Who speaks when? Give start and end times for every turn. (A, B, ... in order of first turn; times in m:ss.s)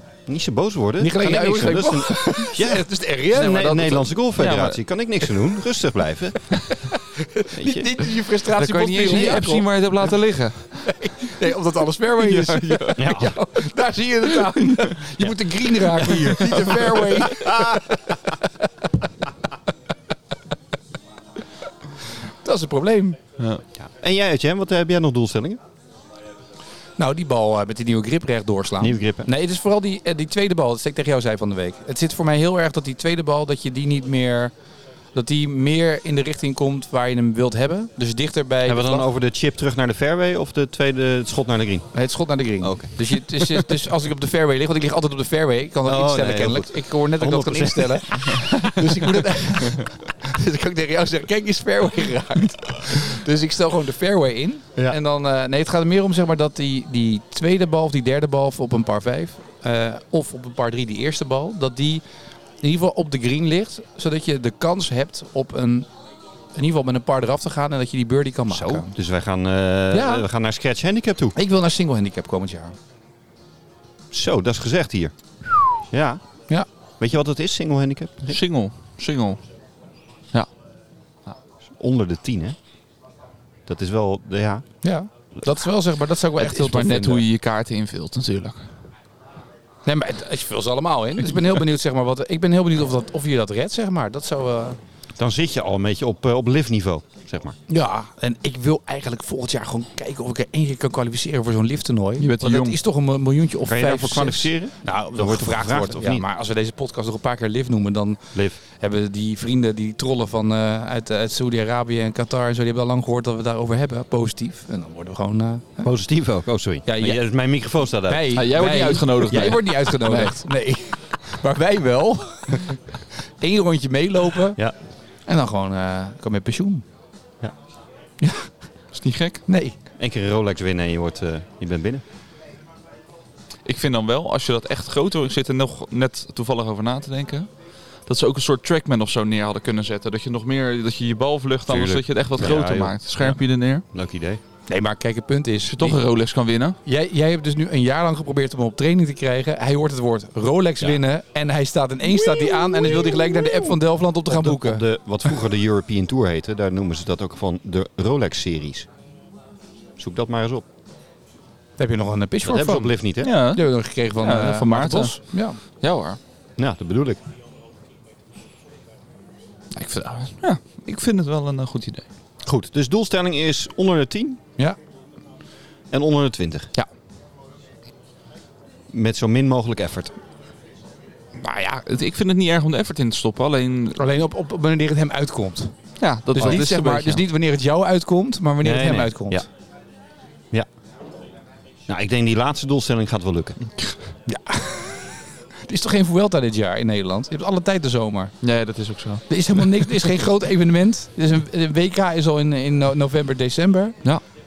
0:00.3-0:06.6 A
0:01.0-0:03.9 B
0:03.4-0:04.8 C
0:06.9-0:09.7 B
0:07.5-0:08.0 A
0:08.5-0:11.3 C
0:09.1-0:09.4 A
0:10.9-0:18.4 B
0:12.2-0:13.2 C
0:13.0-0:13.4 A
0:14.4-0:14.9 C
0:15.9-0:18.1 A
0:16.3-0:17.1 C
0:22.2-0:23.2 B
0:23.8-0:25.6 A
0:27.0-0:34.5 B
0:28.8-0:29.3 A
0:35.2-0:39.1 B
0:38.6-0:41.9 A
0:41.9-1:02.0 B
0:42.6-0:43.1 A
0:45.9-0:48.7 A
1:02.6-1:05.9 B
1:06.5-1:08.9 B
1:08.5-1:11.4 A
1:09.9-1:10.3 B
1:11.4-1:12.8 B
1:14.1-1:16.2 A
1:17.0-1:18.4 A
1:18.3-1:19.4 C
1:21.8-1:22.6 A
1:23.7-1:24.7 A
1:24.8-1:27.2 B
1:26.4-1:28.7 C
1:29.9-1:34.8 B
1:35.2-1:37.6 A
1:37.7-1:55.9 B
1:42.2-1:42.8 C
1:43.7-1:46.2 A
1:48.3-1:48.6 A
1:55.8-1:58.4 A
1:56.9-1:57.2 B
1:58.0-2:04.6 B
1:58.3-2:00.4 C
2:05.3-2:06.8 B
2:08.2-2:08.5 B
2:08.9-2:09.4 C
2:09.5-2:09.8 B
2:10.0-2:12.0 A
2:13.6-2:17.5 C
2:18.0-2:23.8 C
2:21.7-2:24.4 A
2:24.7-2:26.0 B
2:25.7-2:26.8 C
2:26.9-2:34.9 B
2:32.1-2:33.8 A
2:34.3-2:38.9 A
2:40.0-2:40.6 A
2:41.8-2:45.6 B
2:42.4-2:43.3 A
2:43.2-2:46.2 C
2:46.6-2:47.2 A
2:49.8-2:52.0 C
2:52.4-2:54.4 A
2:55.9-2:56.7 A
2:58.9-3:00.2 A
3:01.4-3:01.7 B
3:01.6-3:04.0 C
3:04.0-3:05.7 B
3:06.0-3:07.2 C
3:06.3-3:06.6 A
3:06.4-3:09.4 B
3:08.6-3:09.5 A
3:11.9-3:13.7 A
3:14.3-3:18.3 B
3:18.4-3:19.8 C
3:19.3-3:24.0 B